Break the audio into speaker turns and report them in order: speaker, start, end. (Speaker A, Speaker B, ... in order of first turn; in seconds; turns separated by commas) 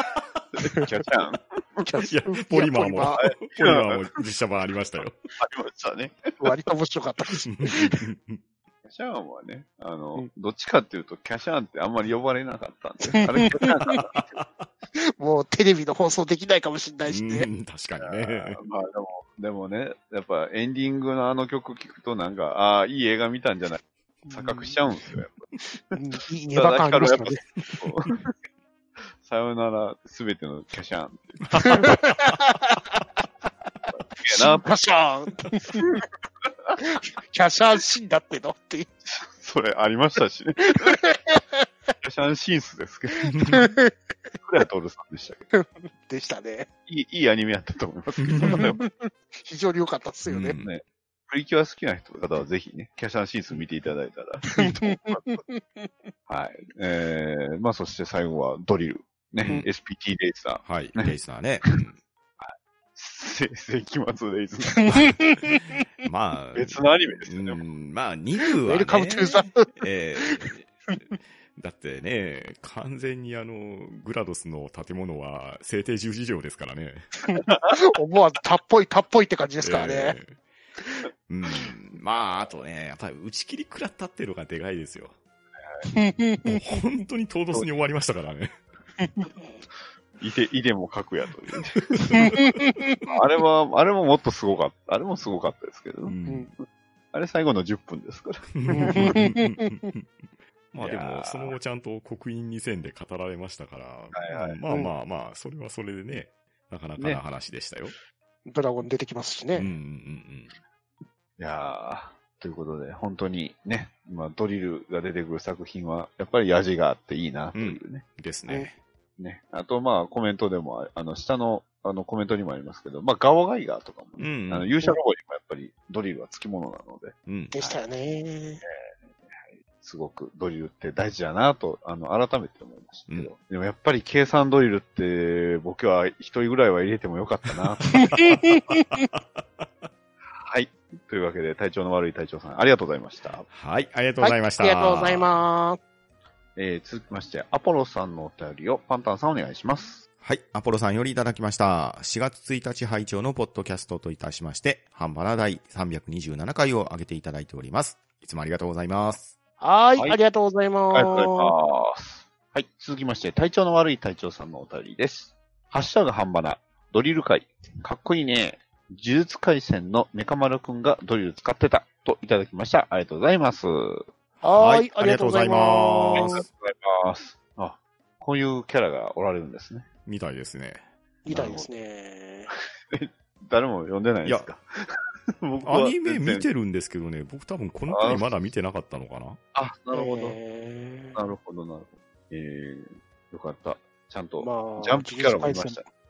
Speaker A: 0.6-1.8, Speaker B: 1.8-3.2, Speaker C: 2.0-5.2, Speaker A: 3.2-4.1, Speaker A: 5.4-6.4, Speaker B: 6.4-8.0, Speaker C: 7.4-8.4, Speaker A: 8.8-14.2, Speaker B: 13.0-14.0, Speaker C: 14.1-14.7, Speaker B: 15.2-17.5, Speaker C: 17.1-18.6, Speaker A: 18.0-25.4, Speaker B: 24.2-24.8, Speaker B: 25.9-27.8, Speaker A: 26.5-28.3, Speaker A: 29.0-31.9, Speaker C: 31.5-32.0, Speaker B: 31.6-32.9, Speaker A: 34.2-34.7, Speaker B: 34.3-35.9, Speaker A: 35.7-36.8, Speaker B: 36.8-38.9, Speaker A: 39.0-41.0, Speaker B: 40.6-41.6, Speaker A: 42.0-43.5, Speaker C: 43.3-43.7, Speaker B: 43.3-43.9, Speaker A: 44.4-45.5, Speaker B: 45.5-46.7, Speaker A: 46.9-48.8, Speaker C: 48.2-48.6, Speaker B: 48.4-50.6, Speaker C: 50.2-50.7, Speaker A: 50.6-55.2, Speaker B: 54.6-55.9, Speaker A: 56.3-61.1, Speaker C: 60.6-62.0, Speaker A: 62.4-65.0, Speaker B: 64.7-65.8, Speaker C: 66.0-70.7, Speaker A: 66.5-67.6, Speaker B: 68.6-69.7, Speaker B: 70.2-70.5, Speaker C: 71.5-77.1, Speaker B: 77.3-80.2, Speaker C: 79.6-80.4, Speaker C: 81.3-85.2, Speaker B: 85.8-86.8, Speaker C: 86.4-88.6, Speaker B: 89.0-89.3, Speaker A: 90.2-92.3, Speaker B: 92.1-93.0, Speaker A: 93.1-96.2, Speaker C: 96.0-96.5, Speaker A: 97.1-99.2, Speaker C: 98.5-107.9, Speaker B: 98.7-99.8, Speaker A: 100.8-101.5, Speaker A: 104.1-104.6, Speaker B: 108.5-109.7, Speaker C: 109.5-110.5, Speaker A: 111.4-118.0, Speaker C: 117.5-118.8, Speaker A: 119.2-127.8, Speaker C: 124.2-124.7, Speaker C: 127.3-127.5, Speaker B: 127.5-128.6, Speaker A: 129.2-138.3, Speaker B: 137.9-139.1, Speaker C: 138.1-139.7, Speaker A: 140.4-143.5, Speaker C: 143.5-145.4, Speaker B: 144.2-145.8, Speaker A: 146.6-150.0, Speaker C: 150.2-159.3, Speaker B: 159.6-161.5, Speaker A: 160.9-174.1, Speaker C: 174.4-176.4, Speaker B: 174.4-176.4, Speaker A: 176.1-179.9, Speaker C: 180.1-180.8, Speaker B: 181.2-182.5, Speaker A: 181.3-181.7, Speaker A: 182.5-184.8, Speaker A: 185.4-186.5, Speaker C: 185.6-189.4, Speaker A: 187.9-188.5, Speaker A: 189.5-190.4, Speaker B: 189.9-191.2, Speaker A: 191.1-195.8, Speaker B: 194.4-195.8